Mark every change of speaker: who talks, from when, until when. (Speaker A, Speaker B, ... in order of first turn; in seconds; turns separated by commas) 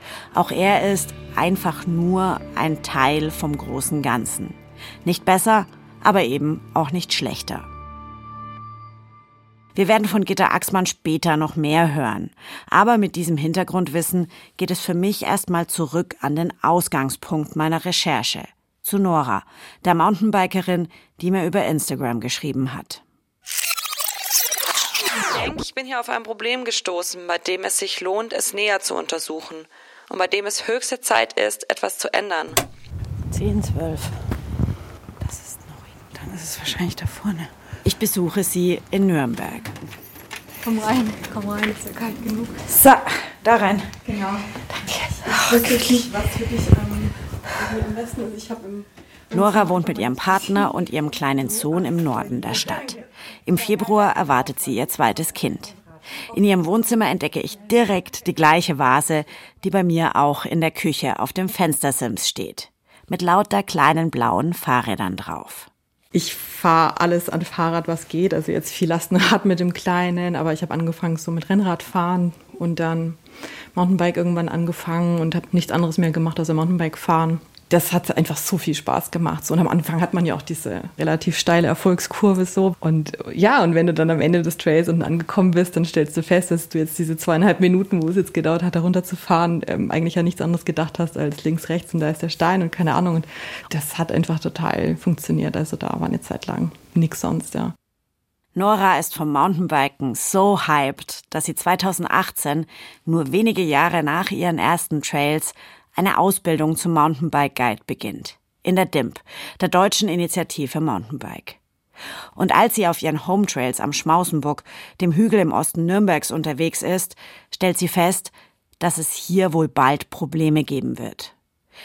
Speaker A: 0.3-7.7, Speaker A: 9.7-23.0, Speaker B: 25.3-32.6, Speaker A: 33.3-34.1, Speaker A: 35.2-39.7, Speaker C: 40.6-42.6, Speaker A: 42.7-44.0, Speaker C: 44.0-48.9, Speaker A: 45.3-45.8, Speaker A: 49.3-55.8, Speaker A: 56.3-65.7, Speaker C: 66.1-73.2, Speaker C: 73.7-97.7, Speaker A: 98.5-111.6, Speaker A: 112.3-121.3